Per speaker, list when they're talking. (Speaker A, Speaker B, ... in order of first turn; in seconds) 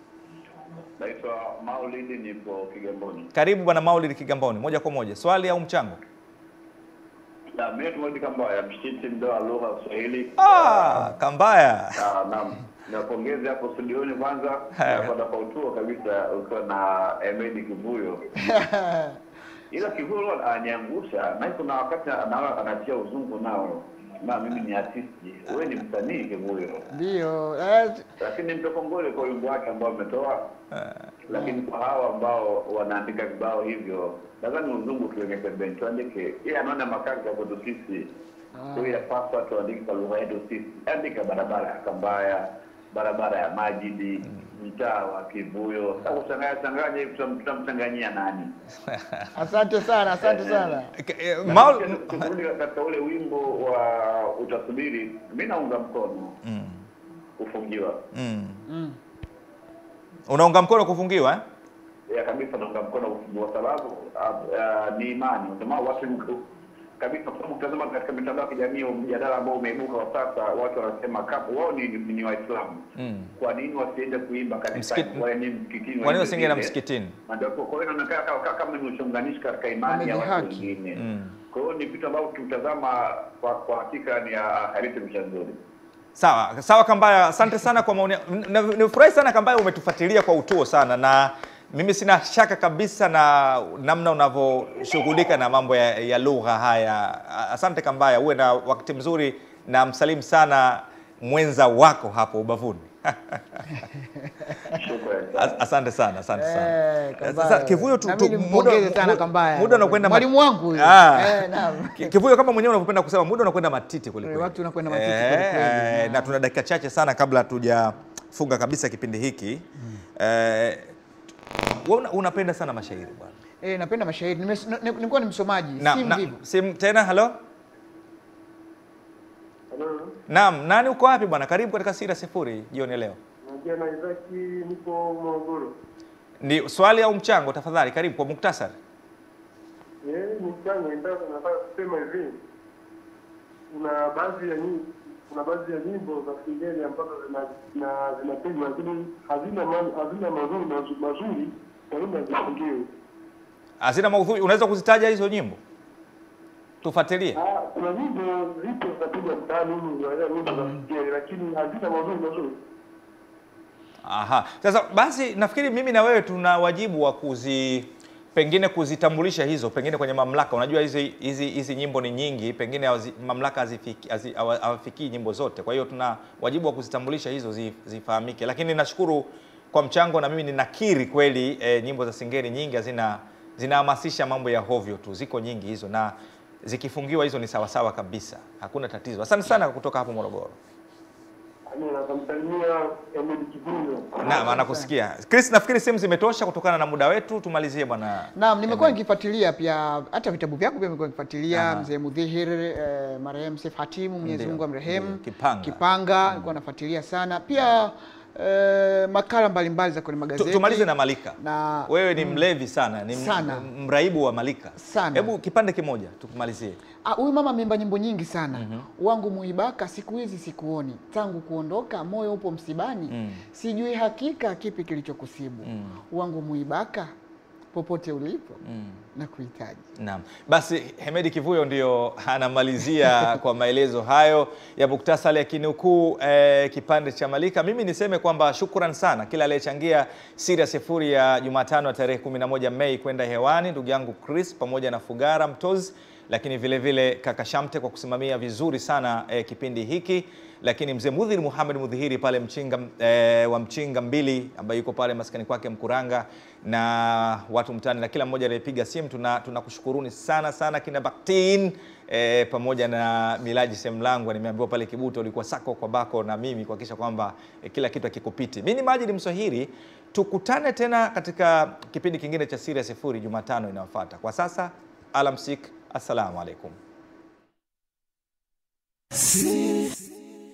Speaker A: 1.0-3.3, 7.5-11.1, 12.0-18.6, 19.7-26.9, 28.2-30.4, 31.3-38.1, 38.7-48.5, 50.2-50.8, 51.4-56.3, 57.4-58.0, 62.1-66.4, 67.0-72.8, 73.4-76.8, 77.3-85.6, 104.7-105.6
Speaker B: 3.3-6.0, 10.4-12.0, 14.8-15.1, 48.9-49.3, 51.0-52.3, 56.4-56.9, 58.1-58.6, 60.3-61.4, 73.0-73.3, 74.7-75.2, 76.0-77.2, 81.0-81.4, 86.2-103.8, 105.3-119.7, 120.2-120.9, 121.8-123.4, 125.8-127.3, 130.3-133.2, 136.4-138.8, 153.8-155.6, 156.8-157.4, 164.0-190.6, 194.2-199.0, 201.5-201.9, 204.2-206.5, 210.4-216.8, 218.5-218.9, 223.1-223.4, 225.6-226.0, 228.6-229.0, 230.0-276.8
Speaker C: 18.4-19.2, 26.9-28.1, 31.3-31.6, 38.5-39.0, 49.3-50.9, 58.7-59.0, 79.8-80.7, 103.7-104.7, 106.4-112.1, 114.2-116.3, 123.6-126.4, 194.3-194.9, 198.3-212.4, 213.1-213.7, 214.8-215.3, 217.0-227.1, 227.7-228.6, 229.2-229.8
Speaker D: 129.7-130.1, 133.5-135.7, 140.0-142.3, 143.7-152.8, 157.3-162.5, 191.7-194.5